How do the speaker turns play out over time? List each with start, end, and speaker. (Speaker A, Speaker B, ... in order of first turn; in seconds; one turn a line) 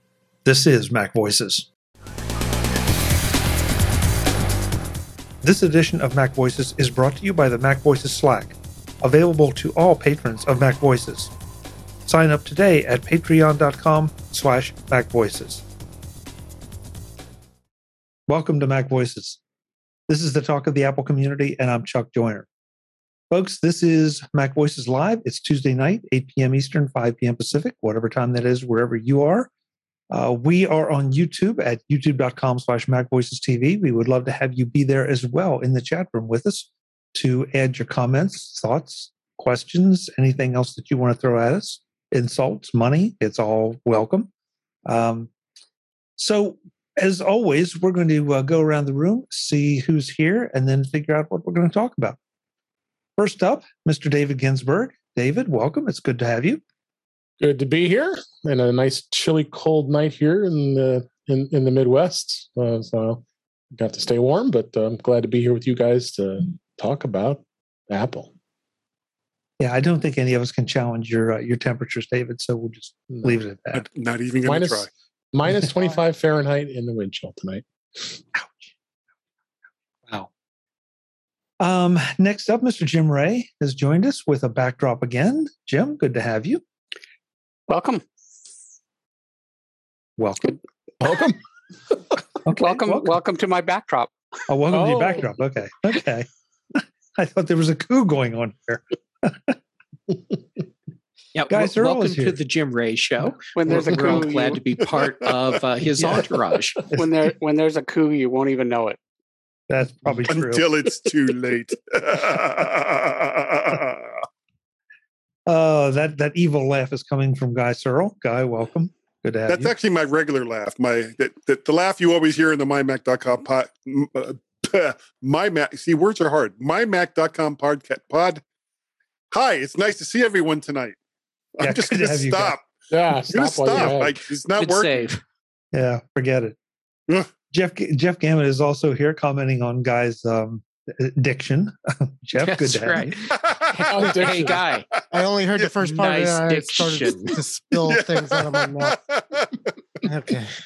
Speaker A: 0.4-1.7
Speaker A: 5.4-11.3
Speaker A: 12.1-15.6
Speaker A: 18.3-19.4
Speaker A: 20.1-22.5
Speaker A: 23.3-29.5
Speaker A: 30.1-44.3
Speaker A: 44.9-45.3
Speaker A: 46.2-52.2
Speaker A: 53.2-56.6
Speaker B: 57.4-68.3
Speaker A: 69.6-73.8
Speaker C: 73.7-74.9
Speaker B: 74.5-78.0
Speaker A: 81.6-86.6
Speaker D: 87.7-88.0
Speaker A: 90.2-90.6
Speaker B: 91.0-91.4
Speaker A: 92.4-93.1
Speaker D: 92.6-94.1
Speaker A: 94.5-99.5
Speaker B: 94.7-95.3
Speaker E: 101.3-106.9
Speaker A: 101.5-102.4
Speaker D: 103.5-104.6
Speaker C: 105.0-105.4
Speaker D: 106.9-109.0
Speaker A: 109.7-110.7
Speaker C: 110.3-114.2
Speaker A: 115.5-119.7
Speaker C: 119.5-128.4
Speaker C: 129.3-131.0
Speaker C: 131.6-135.2
Speaker A: 131.6-132.6
Speaker B: 132.9-134.2
Speaker E: 134.6-135.2
Speaker A: 135.7-136.6
Speaker A: 137.5-143.1
Speaker E: 142.4-144.8
Speaker C: 143.2-145.0
Speaker B: 143.9-144.6
Speaker F: 145.1-148.9
Speaker E: 145.8-147.4
Speaker C: 147.8-149.6
Speaker F: 150.0-150.5